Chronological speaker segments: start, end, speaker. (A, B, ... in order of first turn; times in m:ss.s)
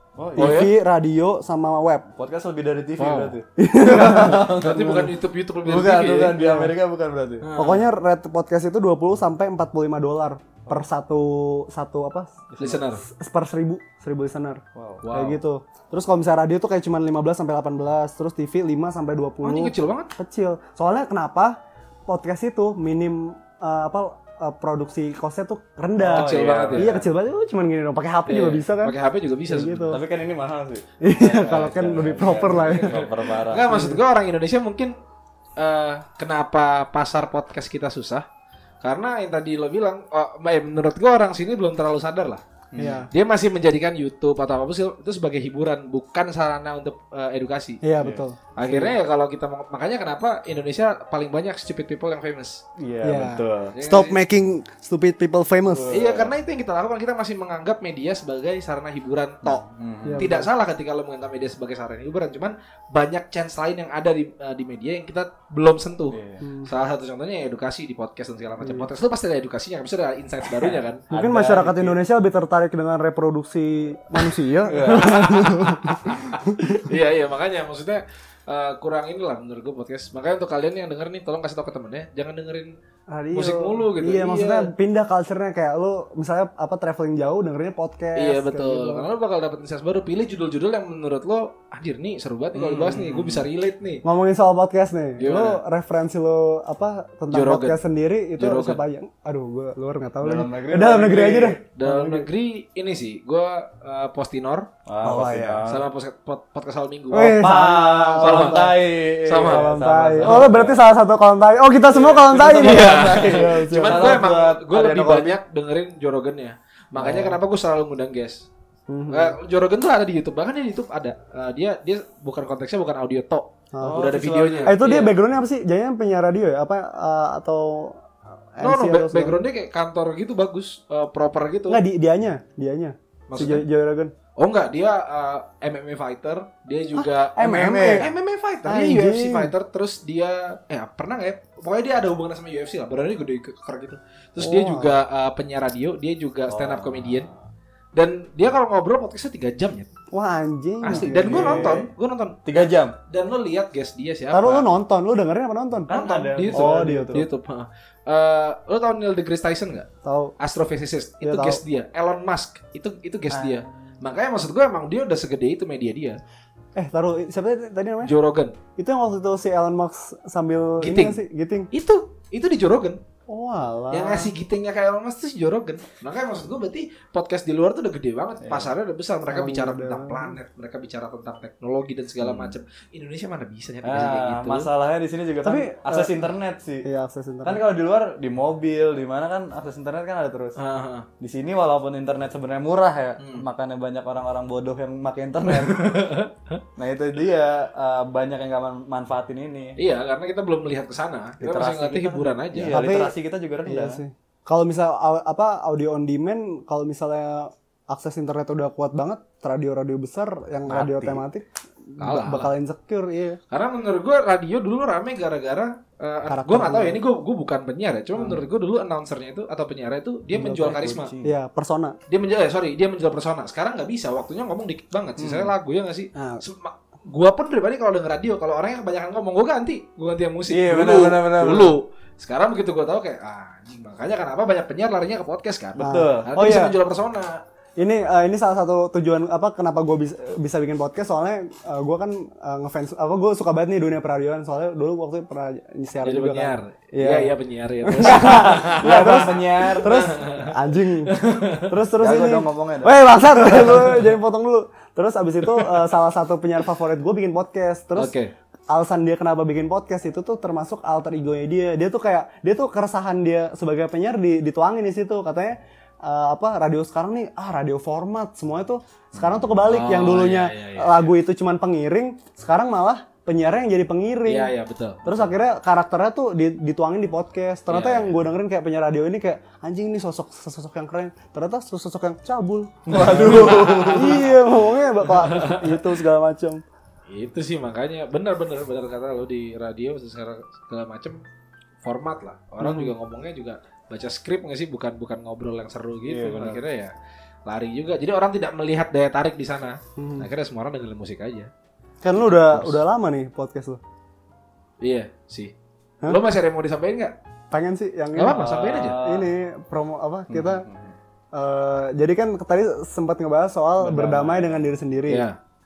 0:00.2-0:00.6 A
0:00.4-0:02.1 B
0:00.4-0:00.7 C
0:02.2-0:05.1 A
0:03.0-0:03.3 C
0:03.6-0:05.0 B
0:04.1-0:06.4 C
0:05.6-0:07.5 A
0:06.4-0:06.7 B
0:07.4-0:07.8 C
0:07.6-0:14.6 B
0:12.5-0:12.8 A
0:12.6-0:13.0 C
0:14.7-0:15.0 A
0:15.0-0:15.4 C
0:15.1-0:28.9 B
0:19.4-0:20.1 C
0:26.0-0:27.1 A
0:26.1-0:26.9 C
0:28.3-0:30.0 C
0:29.5-0:30.0 B
0:29.9-0:33.7 A
0:31.0-0:33.0 B
0:32.4-0:35.0 C
0:33.7-0:34.0 B
0:35.6-0:38.2 C
0:38.8-0:42.4 C
0:42.7-0:43.1 A
0:42.8-0:43.1 B
0:43.1-0:47.8 C
0:47.8-0:48.4 B
0:48.0-0:48.9 A
0:48.6-0:52.6 C
0:52.8-0:53.7 A
0:53.0-0:55.9 B
0:53.7-0:54.2 C
0:55.7-0:56.3 A
0:55.9-1:11.0 C
0:59.4-1:00.3 A
1:00.0-1:00.5 B
1:06.1-1:06.4 A
1:06.4-1:06.7 B
1:10.6-1:12.0 A
1:11.1-1:16.8 B
1:14.7-1:15.5 A
1:14.9-1:22.7 C
1:23.1-1:29.1 B
1:23.3-1:24.7 C
1:28.2-1:34.0 C
1:32.5-1:33.4 A
1:34.0-1:42.3 B
1:35.2-1:35.6 C
1:37.3-1:37.8 C
1:38.4-1:38.8 C
1:40.2-1:41.6 A
1:41.7-1:44.7 C
1:44.8-1:45.8 A
1:45.0-1:45.6 B
1:45.6-1:50.5 C
1:47.1-1:48.8 B
1:47.4-1:50.8 A
1:49.4-1:54.2 B
1:51.9-1:55.4 A
1:52.3-1:58.5 C
1:57.0-1:57.4 A
1:58.9-1:59.4 B
1:59.1-2:05.1 C
2:03.7-2:04.0 B
2:03.8-2:04.8 A
2:04.6-2:08.0 B
2:08.6-2:09.4 B
2:08.6-2:11.8 C
2:11.7-2:14.1 B
2:13.3-2:13.6 C
2:14.4-2:27.3 C
2:17.0-2:18.1 B
2:17.4-2:18.1 A
2:18.6-2:19.5 B
2:24.4-2:25.0 B
2:26.5-2:27.3 A
2:27.9-2:29.9 C
2:30.1-2:31.8 B
2:30.8-2:34.7 C
2:30.8-2:31.9 A
2:32.4-2:33.0 A
2:34.3-2:35.9 B
2:35.8-2:37.2 A
2:35.9-2:39.9 C
2:36.5-2:37.2 B
2:40.0-2:40.3 B
2:40.4-2:46.2 C
2:41.2-2:41.6 B
2:43.3-2:43.6 A
2:46.8-2:48.1 B
2:48.0-2:48.6 C
2:48.8-2:51.7 B
2:50.8-2:53.0 C
2:53.3-2:54.3 B
2:53.9-3:04.7 C
2:58.4-2:58.7 A
2:59.3-3:00.4 B
3:02.2-3:02.5 A
3:03.8-3:06.8 A
3:05.4-3:06.3 B
3:06.8-3:07.6 B
3:07.4-3:10.6 A
3:10.6-3:11.1 C
3:11.2-3:16.1 A
3:13.2-3:13.4 C
3:15.5-3:16.6 C
3:16.8-3:19.8 A
3:19.8-3:22.8 C
3:21.4-3:24.0 A
3:22.6-3:23.1 B
3:23.6-3:33.4 B
3:30.7-3:31.2 C
3:32.0-3:32.5 C
3:33.5-3:41.1 C
3:36.3-3:37.0 B
3:40.4-3:42.0 B
3:40.6-3:41.4 A
3:42.1-3:57.4 C
3:45.2-3:45.5 A
3:46.1-3:46.4 B
3:50.5-3:51.8 A
3:55.8-3:56.3 A
3:55.8-3:56.8 B
3:57.8-4:07.3 B
4:06.0-4:11.7 C
4:07.8-4:18.1 B
4:08.0-4:10.1 A
4:12.0-4:12.9 A
4:18.0-4:18.3 C
4:18.7-4:34.5 B
4:29.2-4:29.4 A
4:29.6-4:31.1 C
4:34.2-4:35.3 C
4:35.0-4:43.4 B
4:37.7-4:38.1 C
4:42.9-4:44.3 A
4:42.9-4:44.3 C
4:43.9-4:46.6 B
4:45.0-4:45.8 C
4:47.1-4:51.2 C
4:51.8-4:56.9 C
4:52.6-4:52.9 B
4:56.1-4:56.6 A
4:57.4-5:01.5 C
5:00.0-5:00.3 B
5:02.0-5:03.8 B
5:02.2-5:02.8 C
5:04.8-5:05.5 C
5:06.0-5:07.2 C
5:07.5-5:10.7 B
5:08.1-5:09.0 C
5:08.3-5:09.3 A
5:10.3-5:10.9 A
5:11.3-5:15.2 B
5:13.8-5:14.6 A
5:15.1-5:15.4 C